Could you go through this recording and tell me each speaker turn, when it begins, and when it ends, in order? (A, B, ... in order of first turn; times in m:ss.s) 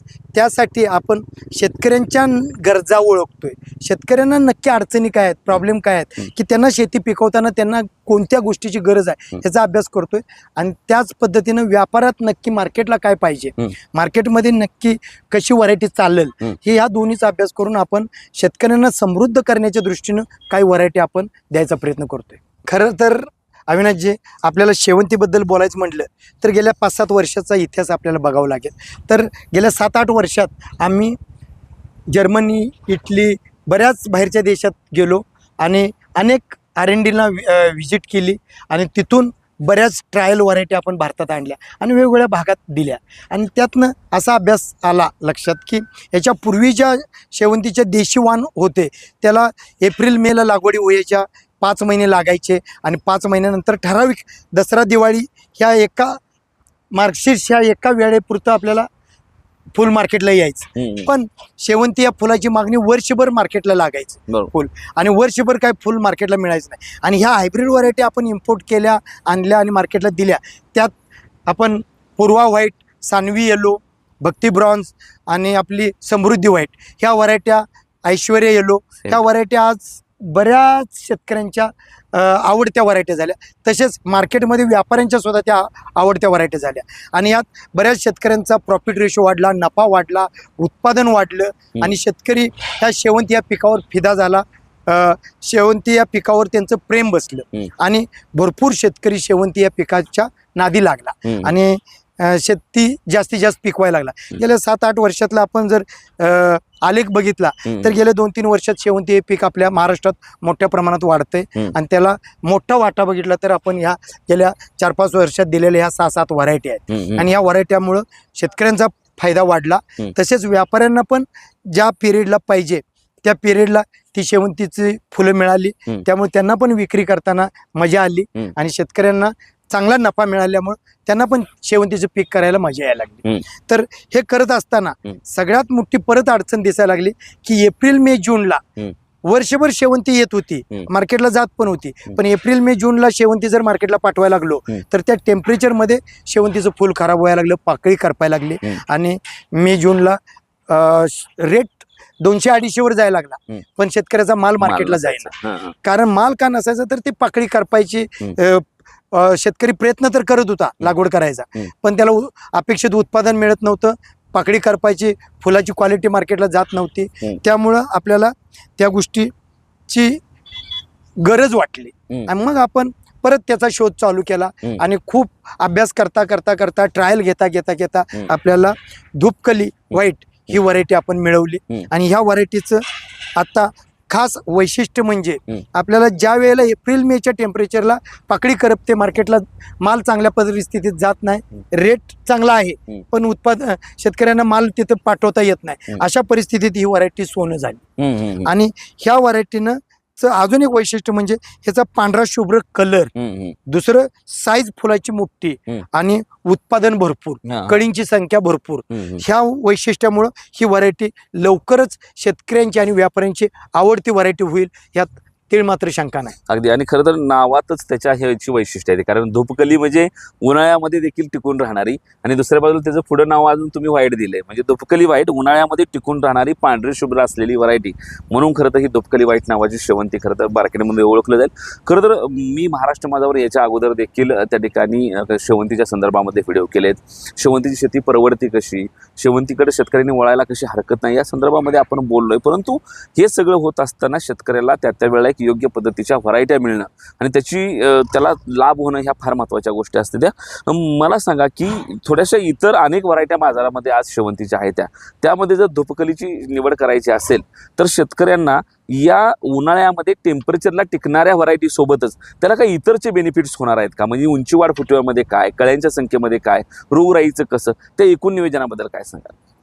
0:00.3-0:31.2 A
0:32.1-0:56.2 A
0:56.9-0:58.9 A
0:59.7-1:10.9 A
1:00.8-1:01.1 B
1:11.5-2:18.6 A
1:56.9-1:57.2 B
2:19.2-2:49.3 A
2:34.6-2:35.7 B
2:49.9-2:50.2 A
2:51.2-3:02.8 A
3:03.4-3:17.8 A
3:18.0-3:18.5 B
3:18.4-3:23.1 A
3:23.2-3:23.6 B
3:23.7-3:36.4 A
3:27.4-3:27.8 B
3:28.9-3:29.2 B
3:36.5-4:29.3 B